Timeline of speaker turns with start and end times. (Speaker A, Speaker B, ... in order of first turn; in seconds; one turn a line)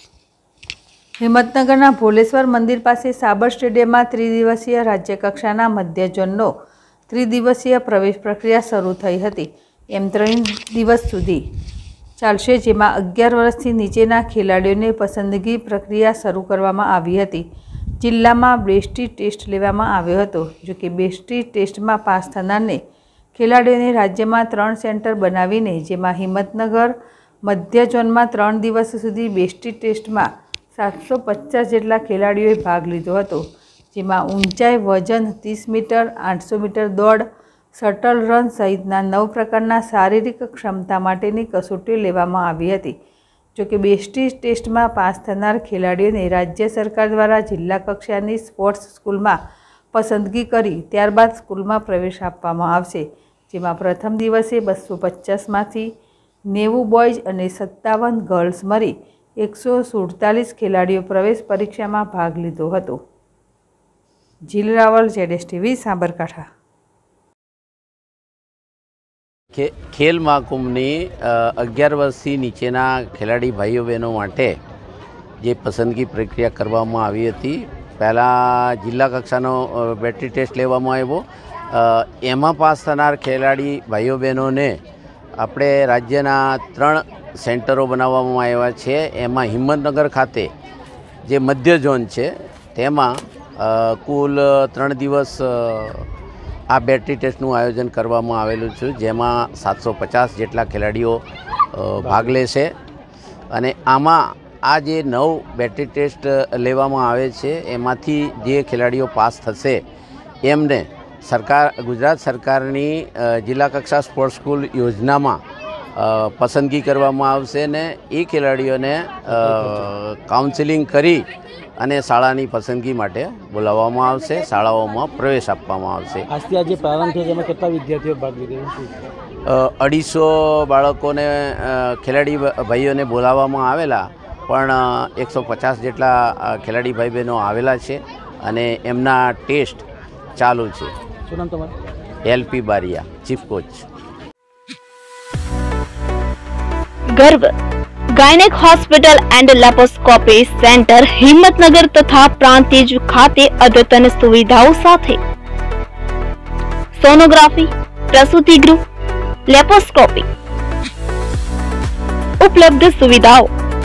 Speaker A: 1.4-6.5
Speaker A: 7.2-9.4
Speaker A: 10.0-11.3
Speaker A: 12.2-17.4
Speaker A: 18.0-22.8
Speaker A: 23.4-26.9
Speaker A: 27.5-30.2
Speaker A: 30.8-33.4
Speaker A: 33.9-37.2
Speaker A: 37.8-42.9
Speaker A: 43.6-49.3
Speaker A: 50.0-55.9
Speaker A: 56.5-58.9
Speaker A: 59.4-63.0
Speaker A: 64.5-66.4
Speaker B: 69.5-74.5
Speaker B: 75.4-84.8
Speaker B: 85.4-90.5
Speaker B: 91.2-96.1
Speaker B: 96.7-101.2
Speaker B: 101.7-102.7
Speaker C: 102.0-102.3
Speaker B: 103.5-109.8
Speaker B: 110.4-115.4
Speaker B: 116.0-121.2
Speaker C: 119.3-119.9
Speaker B: 121.8-126.2
Speaker C: 126.3-129.0
Speaker B: 129.5-139.8
Speaker B: 140.4-140.9
Speaker C: 141.3-141.7
Speaker B: 142.3-143.8
Speaker D: 147.2-147.5
Speaker D: 148.1-155.2
Speaker D: 156.9-158.8
Speaker D: 159.5-160.3
Speaker D: 162.4-163.5